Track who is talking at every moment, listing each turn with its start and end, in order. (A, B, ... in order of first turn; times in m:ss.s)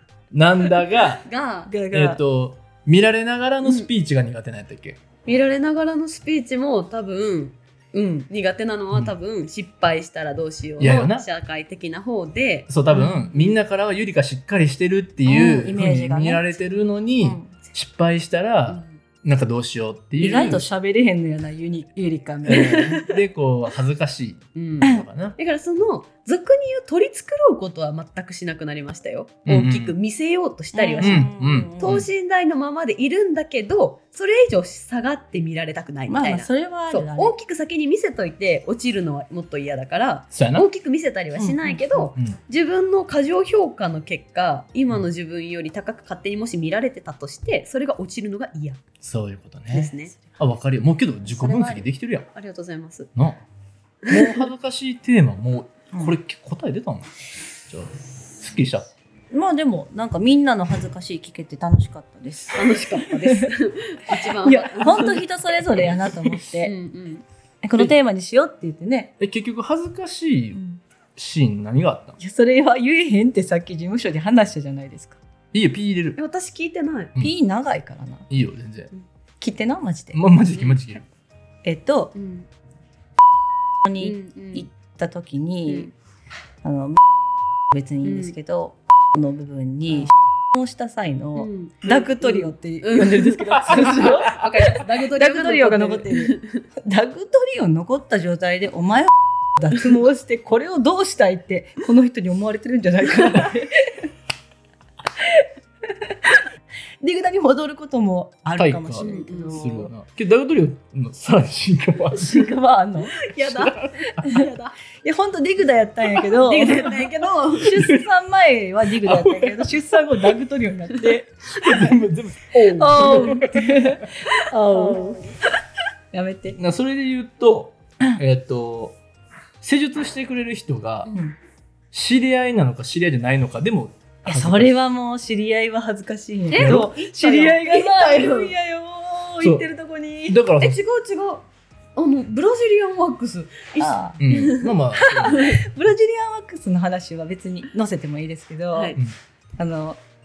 0:00.3-0:01.3 A
0:01.2-0:01.7 B
0:01.7-0:02.2 C
0:01.9-0:05.0 A
0:03.6-0:03.9 B
0:05.3-0:13.6 B
0:10.8-0:11.3 A
0:12.7-0:20.6 A
0:15.3-0:16.6 C
0:17.2-0:17.5 C
0:18.7-0:19.0 B
0:20.2-0:23.0 C
0:20.3-0:20.6 B
0:22.4-0:25.4 A
0:22.5-0:23.2 B
0:24.6-0:48.8 B
0:29.5-0:30.0 A
0:30.7-0:32.0 C
0:31.0-0:32.1 A
0:36.1-0:37.4 C
0:40.3-0:40.7 A
0:41.4-0:42.1 C
0:49.0-0:52.3 A
0:49.7-0:50.2 B
0:51.3-0:53.1 B
0:53.2-0:53.4 A
0:54.0-0:54.5 B
0:54.1-0:57.1 A
0:57.7-0:58.9 A
0:59.3-1:03.5 C
1:02.5-1:05.2 B
1:04.1-1:06.7 C
1:06.6-1:07.2 B
1:07.6-1:09.2 C
1:09.2-1:10.6 A
1:10.5-1:10.8 C
1:11.2-1:12.2 A
1:12.2-1:15.2 C
1:15.5-1:16.2 A
1:16.2-1:17.1 B
1:17.2-1:18.3 C
1:18.3-1:18.9 A
1:19.4-1:20.2 C
1:20.1-1:21.1 A
1:21.6-1:22.2 C
1:22.2-1:22.5 B
1:23.9-1:25.9 C
1:24.0-1:24.7 B
1:25.7-1:25.9 B
1:26.6-1:27.0 C
1:27.7-1:44.1 C
1:28.0-1:28.4 B
1:31.4-1:36.6 B
1:45.2-1:45.5 C
1:47.0-1:49.9 C
1:48.6-1:52.5 A
1:49.0-1:49.8 B
1:52.1-1:53.2 C
1:53.2-1:54.8 B
1:53.5-1:54.2 A
1:54.2-1:54.5 C
1:55.0-2:02.0 C
1:56.1-1:57.8 B
1:57.8-1:58.0 A
1:59.0-1:59.7 A
2:01.6-2:04.0 A
2:02.5-2:05.2 C
2:02.5-2:03.5 B
2:04.3-2:05.3 B
2:06.1-2:06.6 C
2:06.6-2:09.0 A
2:09.6-2:11.1 A
2:11.1-2:11.4 C
2:11.9-2:14.7 A
2:14.3-2:20.4 C
2:16.5-2:18.5 B
2:16.6-2:16.9 A
2:19.4-2:19.7 A
2:20.3-2:20.8 A
2:20.6-2:25.6 B
2:23.8-2:24.5 C
2:24.2-2:25.5 A
2:25.3-2:29.0 C
2:28.7-2:29.0 B
2:29.6-2:30.0 C